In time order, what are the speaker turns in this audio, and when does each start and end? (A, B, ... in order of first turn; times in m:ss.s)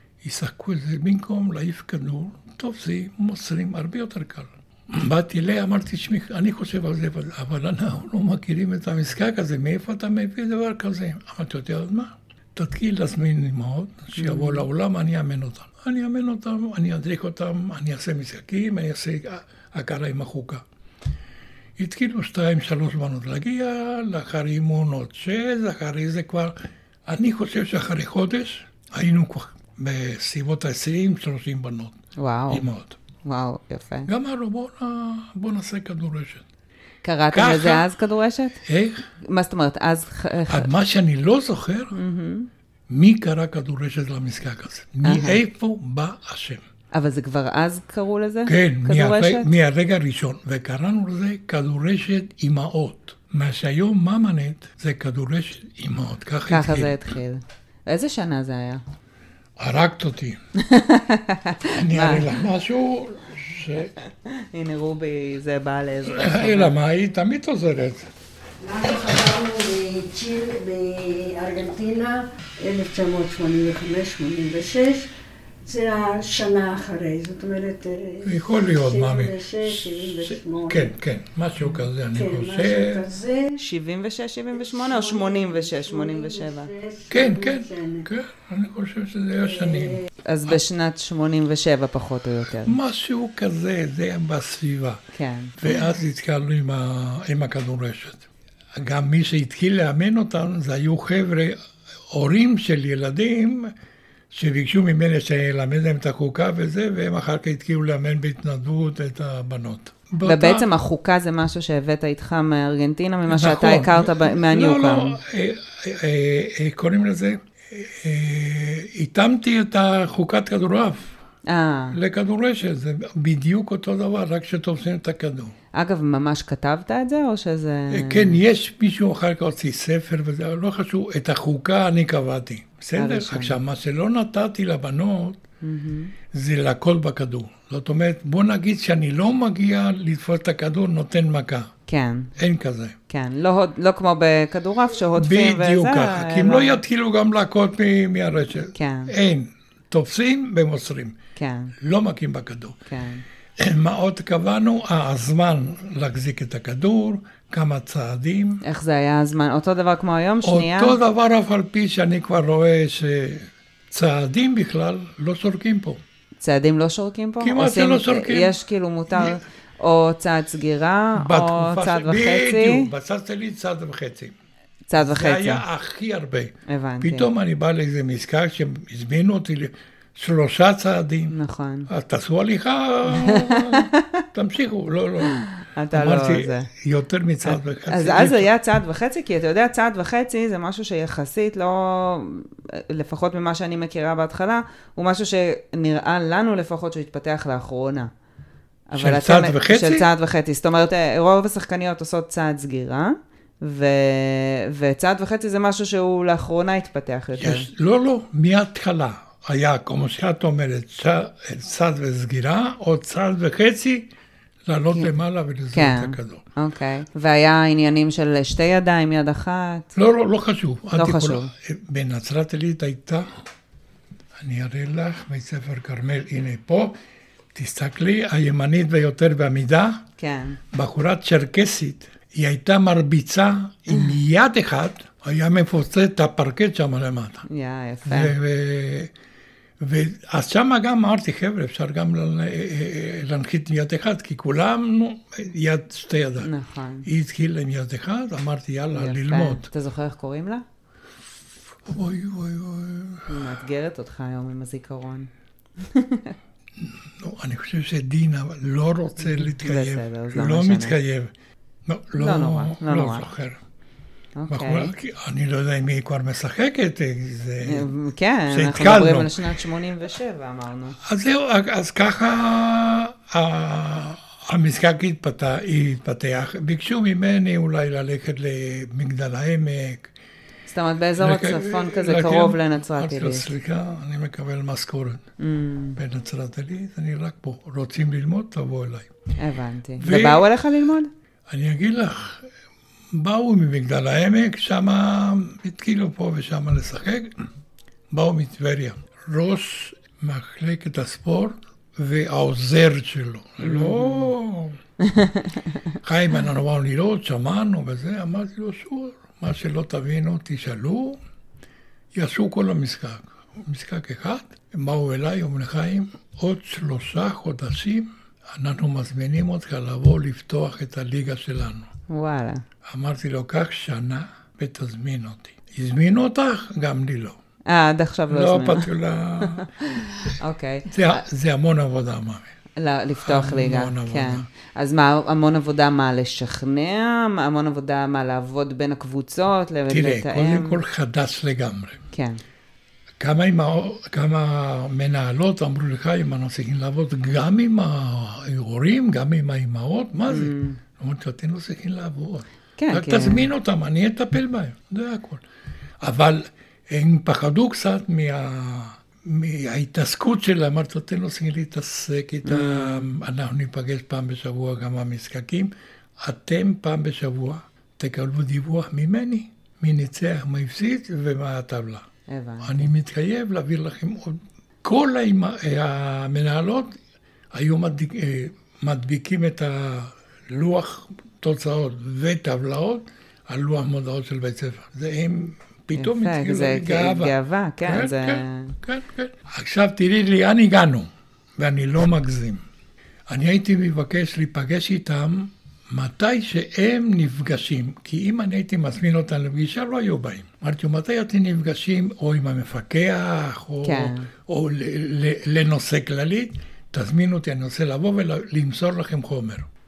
0:00.2-0:20.6 A
0:14.2-0:14.6 B
0:21.8-0:26.5 A
0:27.0-0:32.0 A
0:32.2-0:32.7 B
0:32.5-0:33.0 A
0:33.2-0:34.1 B
0:34.1-0:36.4 A
0:37.0-0:38.6 B
0:37.3-0:37.9 A
0:38.6-0:39.1 A
0:39.2-0:40.7 B
0:40.5-0:42.0 A
0:41.9-0:42.5 B
0:42.9-0:46.6 A
0:45.0-0:45.4 B
0:46.9-0:49.5 B
0:48.4-0:57.0 A
0:56.5-0:58.8 B
0:59.6-1:00.4 A
1:00.6-1:02.5 B
1:01.7-1:03.9 A
1:03.8-1:06.7 B
1:06.0-1:08.1 A
1:08.6-1:15.1 C
1:15.6-1:20.9 C
1:18.2-1:23.0 A
1:22.1-1:23.6 C
1:23.6-1:26.7 B
1:24.6-1:28.1 C
1:27.1-1:30.6 A
1:29.6-1:30.0 C
1:30.2-1:32.8 B
1:32.6-1:35.0 A
1:35.1-1:35.6 B
1:35.6-1:41.6 A
1:42.1-1:43.7 A
1:44.3-1:50.7 A
1:50.2-1:55.2 B
1:53.3-2:01.2 A
2:01.5-2:02.0 B
2:01.9-2:05.5 A
2:05.7-2:08.4 B
2:07.9-2:15.4 A
2:13.0-2:13.6 B
2:15.6-2:16.1 B
2:16.3-2:21.7 A
2:21.9-2:22.3 B
2:22.4-2:23.0 A
2:23.1-2:26.8 B
2:25.1-2:31.2 A
2:28.7-2:29.1 B
2:31.4-2:31.7 B
2:31.8-2:32.8 A
2:32.8-2:33.2 B
2:33.6-2:38.6 A
2:38.6-2:41.0 B
2:40.4-2:46.0 A
2:46.4-2:52.9 B
2:47.4-2:48.5 A
2:49.1-2:49.4 A
2:51.1-2:54.3 A
2:54.9-2:55.6 B
2:55.0-3:01.4 A
2:56.7-2:57.3 B
3:01.3-3:01.9 B
3:01.9-3:05.4 A
3:03.1-3:04.2 B
3:05.2-3:06.7 B
3:05.9-3:08.5 A
3:07.4-3:18.1 B
3:18.9-3:27.7 B
3:19.0-3:20.1 A
3:27.4-3:34.1 A
3:34.6-3:36.4 A
3:35.7-3:39.9 B
3:39.9-3:43.3 A
3:40.9-3:41.5 B
3:44.4-3:46.9 A
3:47.5-3:50.0 A
3:50.2-3:50.6 B
3:50.7-3:57.4 A
3:57.4-3:58.3 B
3:58.0-3:59.1 A
3:59.8-4:06.5 A
4:06.4-4:07.1 B
4:07.0-4:09.7 A
4:08.9-4:10.6 B
4:11.8-4:13.5 A
4:13.3-4:16.4 B
4:16.8-4:21.3 A
4:19.3-4:21.0 B
4:21.8-4:23.6 A
4:22.2-4:23.3 B
4:24.3-4:24.9 B
4:24.5-4:27.9 A
4:27.6-4:31.0 B
4:28.5-4:29.4 A
4:31.0-4:40.1 A
4:40.7-4:43.5 B
4:41.2-4:45.2 A
4:45.4-4:46.0 B
4:46.0-4:49.1 A
4:49.4-4:51.1 B
4:50.0-4:50.5 A
4:51.5-4:52.5 A
4:53.1-4:57.4 A
4:58.1-5:04.8 A
5:03.6-5:04.3 B
5:05.0-5:05.8 B
5:06.0-5:11.2 A
5:12.1-5:21.9 A
5:22.1-5:22.6 B
5:22.8-5:27.4 A
5:27.7-5:28.9 B
5:28.3-5:29.7 A
5:29.4-5:31.2 B
5:30.9-5:32.5 A
5:32.8-5:40.8 B
5:33.2-5:34.5 A
5:39.9-5:42.0 A
5:42.1-5:42.4 B
5:43.2-5:55.4 A
5:50.3-5:50.8 B
5:52.8-5:53.5 B
5:56.0-6:12.1 A
6:02.4-6:03.1 B
6:12.3-6:12.9 B
6:12.6-6:17.0 A
6:17.5-6:32.6 A
6:25.9-6:28.8 B
6:33.3-6:49.7 A
6:43.8-6:44.3 B